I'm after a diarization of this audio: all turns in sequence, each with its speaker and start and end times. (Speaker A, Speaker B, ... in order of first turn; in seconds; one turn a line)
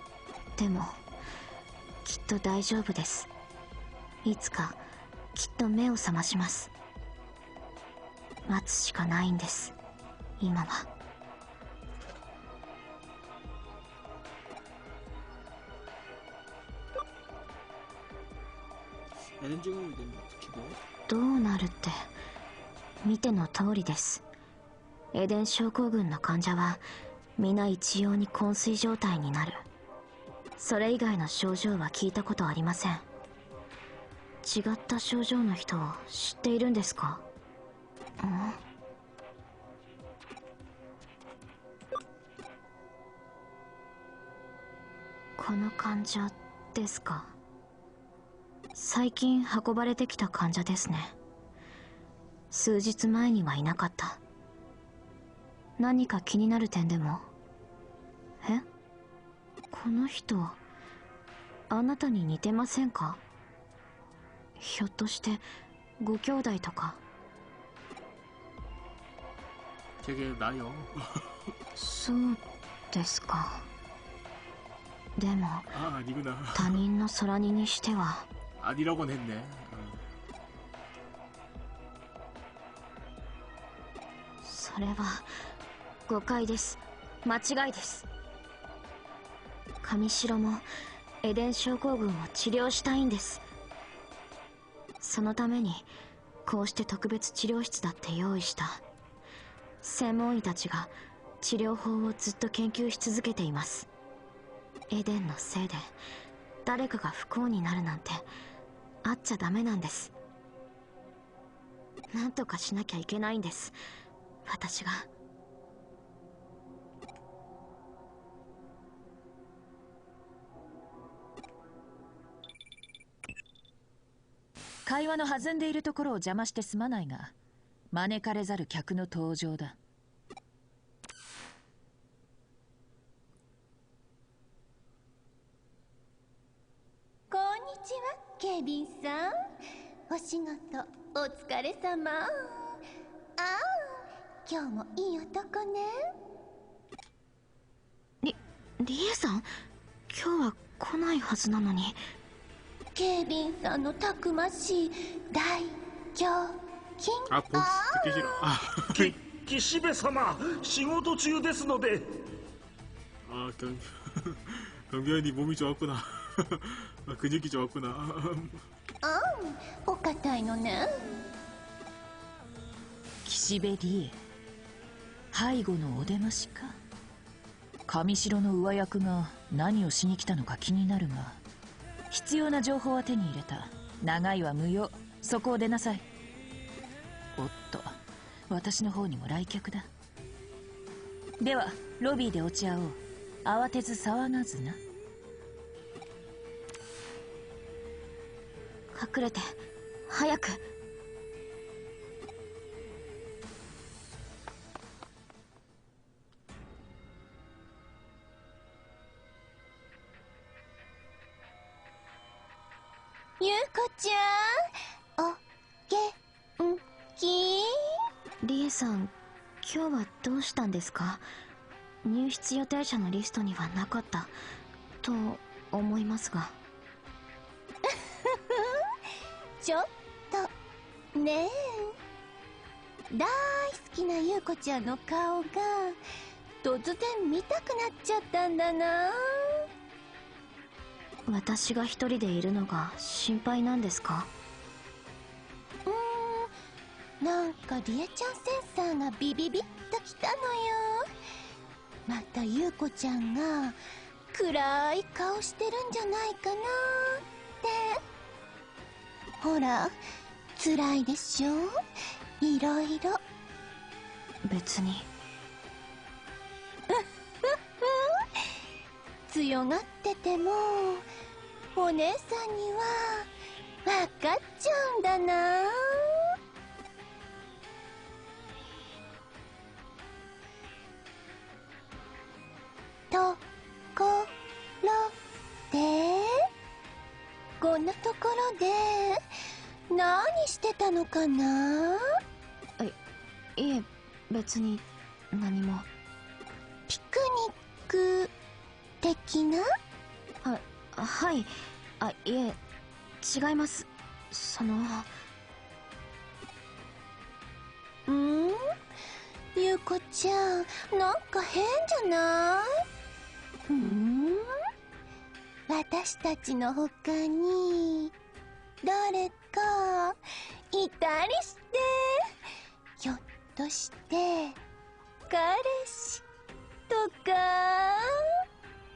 Speaker A: 0.6-1.0
Speaker A: 2.0-3.3
Speaker A: 4.2-4.8
Speaker A: 5.3-6.7
Speaker A: 8.5-9.7
Speaker A: 10.4-10.9
Speaker B: 19.4-20.8
Speaker A: 21.1-22.1
Speaker A: 23.0-24.2
Speaker A: 25.1-26.8
Speaker A: 27.4-29.6
Speaker A: 30.6-33.0
Speaker A: 34.4-37.2
Speaker A: 38.2-38.6
Speaker A: 45.4-47.4
Speaker A: 48.7-51.2
Speaker A: 52.5-54.2
Speaker A: 55.8-57.3
Speaker A: 58.4-58.7
Speaker A: 59.7-60.6
Speaker A: 61.7-63.2
Speaker A: 64.6-65.4
Speaker A: 66.0-67.0
Speaker B: 70.0-71.2
Speaker A: 71.7-73.7
Speaker A: 75.2-75.8
Speaker B: 75.7-76.8
Speaker A: 76.5-78.3
Speaker B: 78.6-80.0
Speaker A: 84.4-85.3
Speaker A: 86.1-88.1
Speaker A: 89.8-90.7
Speaker A: 91.2-93.4
Speaker A: 95.0-95.9
Speaker A: 96.4-98.8
Speaker A: 99.8-103.9
Speaker A: 104.9-105.9
Speaker A: 106.6-108.3
Speaker A: 109.0-110.1
Speaker A: 112.1-113.8
Speaker A: 114.4-115.1
Speaker C: 124.8-127.3
Speaker C: 127.9-129.8
Speaker D: 137.3-139.3
Speaker D: 140.1-142.8
Speaker D: 143.4-145.9
Speaker A: 148.2-149.5
Speaker A: 150.1-152.0
Speaker D: 152.9-158.3
Speaker B: 157.3-159.1
Speaker E: 159.0-162.1
Speaker B: 163.2-168.6
Speaker D: 169.0-171.2
Speaker C: 173.2-174.2
Speaker C: 175.3-176.8
Speaker C: 177.9-181.4
Speaker C: 182.1-186.0
Speaker C: 187.3-188.0
Speaker C: 188.5-189.9
Speaker C: 191.4-194.8
Speaker A: 198.9-200.6
Speaker D: 213.4-214.6
Speaker D: 215.2-217.7
Speaker A: 218.4-221.2
Speaker A: 222.0-224.3
Speaker A: 225.0-226.6
Speaker D: 227.8-228.9
Speaker D: 229.6-230.5
Speaker D: 231.1-231.9
Speaker D: 233.1-236.0
Speaker D: 236.6-239.6
Speaker A: 241.3-244.3
Speaker D: 245.8-246.5
Speaker D: 247.2-251.0
Speaker D: 252.1-253.8
Speaker D: 254.3-258.0
Speaker D: 259.4-259.9
Speaker D: 260.6-261.7
Speaker D: 262.4-263.2
Speaker A: 264.4-265.1
Speaker D: 266.9-268.4
Speaker D: 269.3-271.0
Speaker D: 271.7-273.3
Speaker D: 273.8-276.2
Speaker D: 283.1-283.4
Speaker D: 283.9-284.3
Speaker D: 284.8-285.1
Speaker D: 285.7-286.4
Speaker D: 287.6-289.2
Speaker D: 289.9-292.0
Speaker A: 293.6-295.9
Speaker D: 296.9-298.3
Speaker D: 299.0-299.6
Speaker A: 300.4-302.6
Speaker A: 303.2-305.1
Speaker D: 308.1-308.6
Speaker D: 309.5-312.7
Speaker D: 313.7-314.4
Speaker D: 315.7-318.1
Speaker D: 318.8-320.2
Speaker D: 320.7-322.3
Speaker D: 323.0-324.6
Speaker D: 325.3-326.2
Speaker D: 326.9-328.1